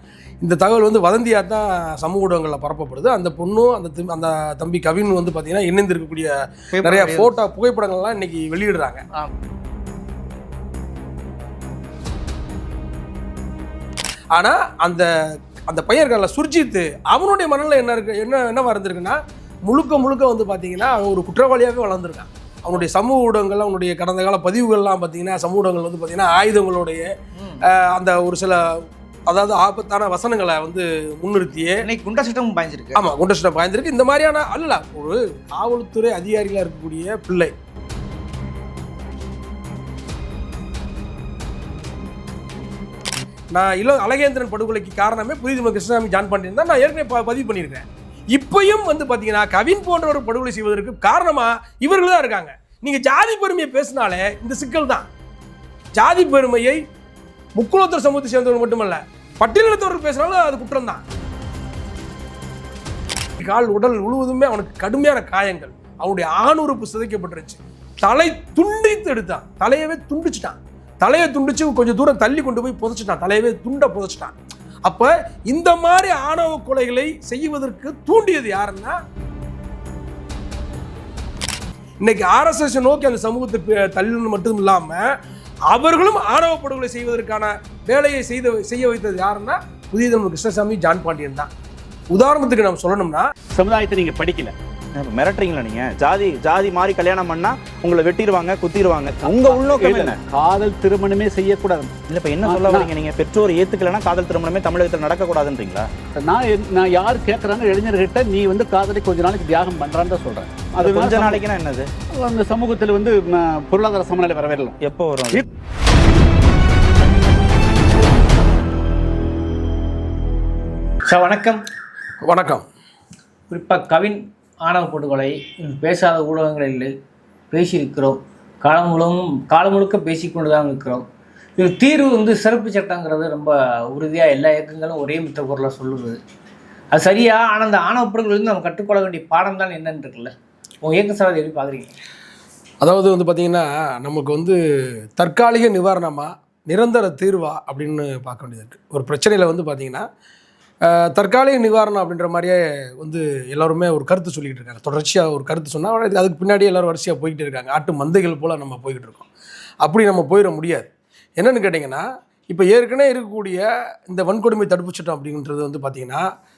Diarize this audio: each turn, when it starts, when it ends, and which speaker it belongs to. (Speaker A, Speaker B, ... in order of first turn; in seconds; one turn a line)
Speaker A: 0.4-9.0
Speaker B: 6.7-7.3
Speaker A: 14.3-15.1
Speaker A: 15.7-27.1
Speaker B: 27.4-27.6
Speaker A: 27.6-28.6
Speaker A: 29.3-31.8
Speaker B: 31.8-33.0
Speaker A: 32.9-37.5
Speaker A: 43.5-55.0
Speaker A: 56.0-56.8
Speaker A: 57.6-61.0
Speaker A: 63.4-74.3
Speaker A: 74.8-79.0
Speaker A: 82.0-85.0
Speaker A: 85.7-91.5
Speaker A: 92.1-93.3
Speaker C: 93.5-94.5
Speaker D: 95.0-100.2
Speaker C: 99.2-102.9
Speaker D: 102.1-105.9
Speaker C: 106.2-111.4
Speaker D: 110.8-111.9
Speaker C: 112.1-114.8
Speaker D: 114.8-115.4
Speaker B: 121.1-121.6
Speaker A: 122.2-122.7
Speaker B: 123.5-126.9
Speaker B: 127.5-131.0
Speaker B: 131.6-136.2
Speaker B: 136.9-140.3
Speaker B: 140.8-141.9
Speaker A: 142.8-144.6
Speaker A: 145.2-150.1
Speaker A: 150.9-159.3
Speaker A: 159.8-166.2